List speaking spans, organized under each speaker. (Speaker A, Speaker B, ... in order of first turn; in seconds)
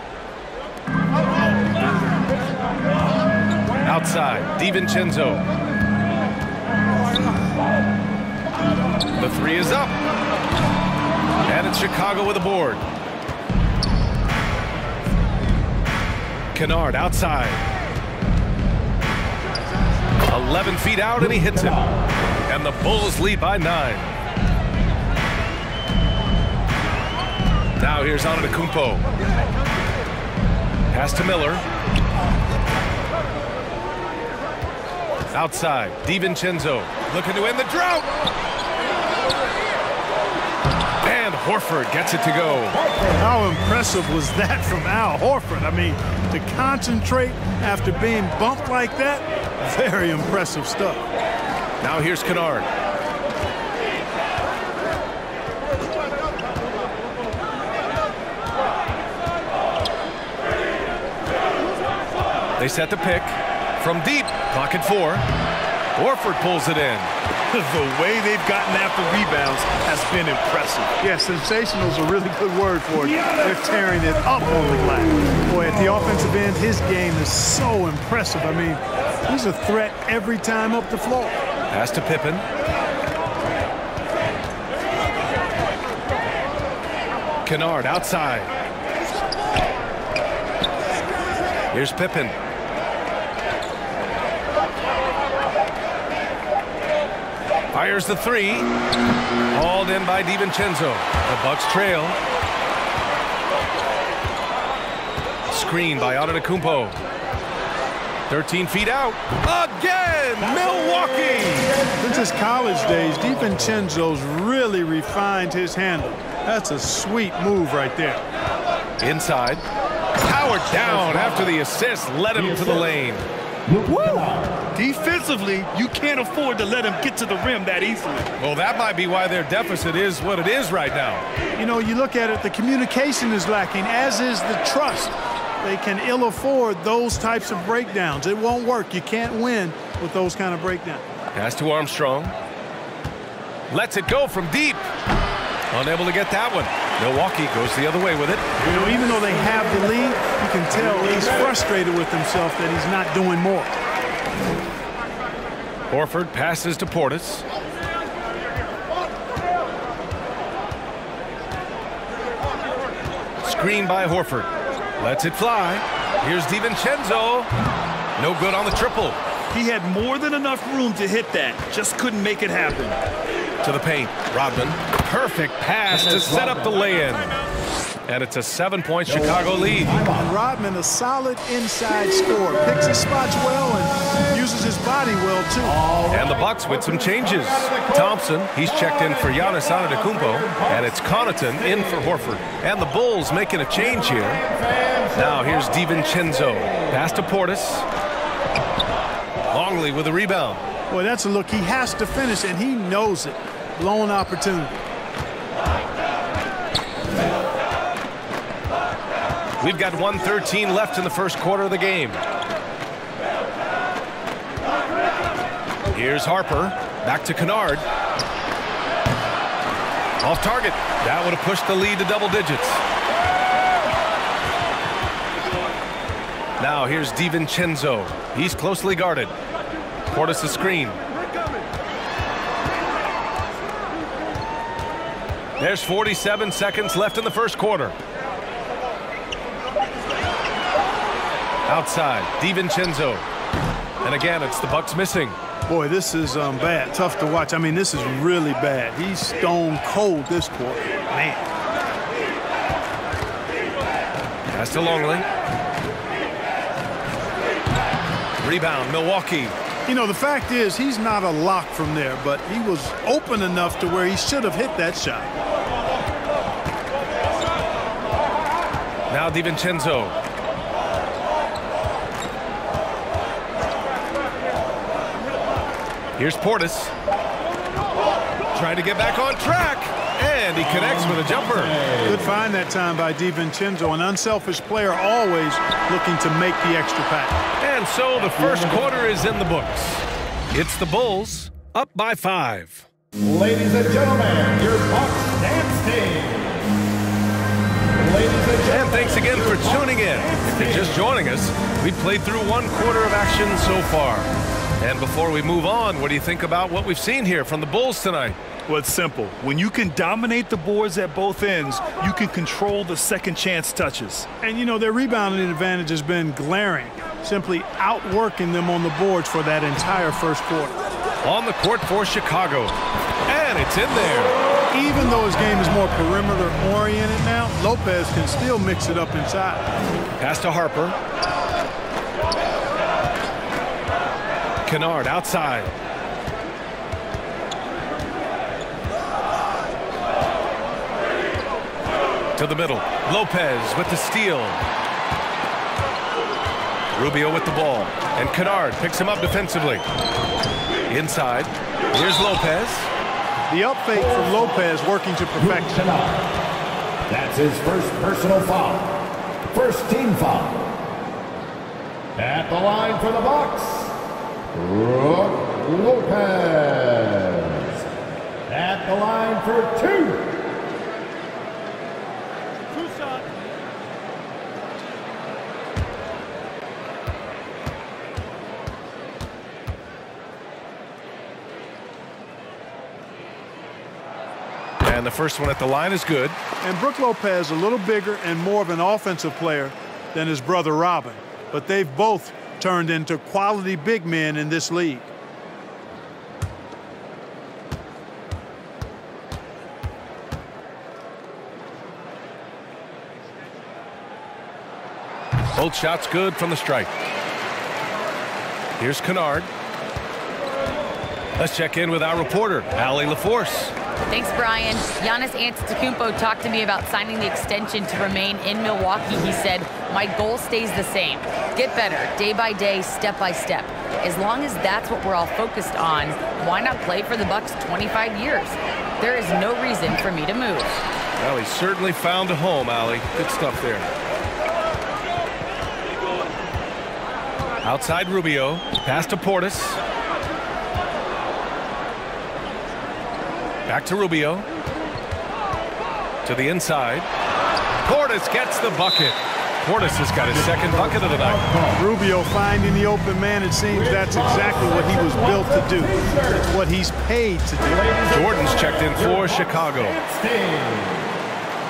Speaker A: 3.8-5.4, 9.2-9.9, 11.4-12.8, 16.5-17.6, 20.3-21.8, 22.5-24.1, 27.8-29.0, 30.9-31.6, 35.3-38.2, 41.0-42.8, 51.8-52.6, 62.6-65.2, 65.9-67.1, 81.7-82.4, 87.4-88.5, 91.7-92.3, 97.7-98.7, 99.5-102.2, 105.5-107.0, 108.3-111.8, 119.0-119.6, 120.2-123.2, 128.4-131.2, 141.3-142.3, 143.7-144.8, 145.7-148.4, 155.9-157.4, 163.4-167.5, 168.2-169.2, 173.6-177.3, 178.1-180.0, 186.1-194.5, 195.1-197.8, 199.5-200.6, 209.6-212.2, 215.9-217.8, 220.2-222.8, 226.6-229.3, 230.1-231.0, 235.6-237.9, 241.7-243.2, 244.0-245.4, 254.5-255.2, 258.4-259.5, 269.1-270.1, 276.2-276.9, 278.5-281.8, 287.6-292.9, 298.7-304.3, 304.8-308.4, 321.2-322.8, 323.3-324.3, 330.2-330.9, 334.6-335.7, 342.3-344.6, 346.9-349.8, 350.9-352.9, 384.8-386.4, 405.5-406.9, 408.8-409.5, 411.4-413.7, 431.2-433.9, 437.6-439.8, 443.7-444.5, 446.2-447.1, 447.8-451.4, 458.1-460.0
Speaker B: 21.2-22.1, 42.7-43.3, 110.6-112.0, 120.8-121.5, 122.4-122.8, 123.7-124.6, 175.9-176.8, 179.1-180.3, 185.6-188.1, 188.8-192.2, 194.2-195.2, 281.0-282.1, 293.2-296.7, 297.9-301.1, 353.9-354.6, 355.4-356.3, 357.1-360.7, 362.1-364.0, 364.5-367.9, 368.5-370.4, 450.3-451.8, 453.7-456.5, 457.6-461.1
Speaker C: 43.2-51.0, 71.0-81.3, 112.0-118.2, 131.6-141.0, 148.6-153.7, 180.1-185.8, 200.9-204.7, 245.7-251.4, 259.9-265.3, 282.0-287.4, 314.4-320.8, 324.7-329.7, 353.5-355.9, 386.6-395.1, 451.7-458.0
Speaker D: 67.5-70.9, 124.7-128.3, 169.5-172.9, 308.7-314.3
Speaker E: 414.1-430.8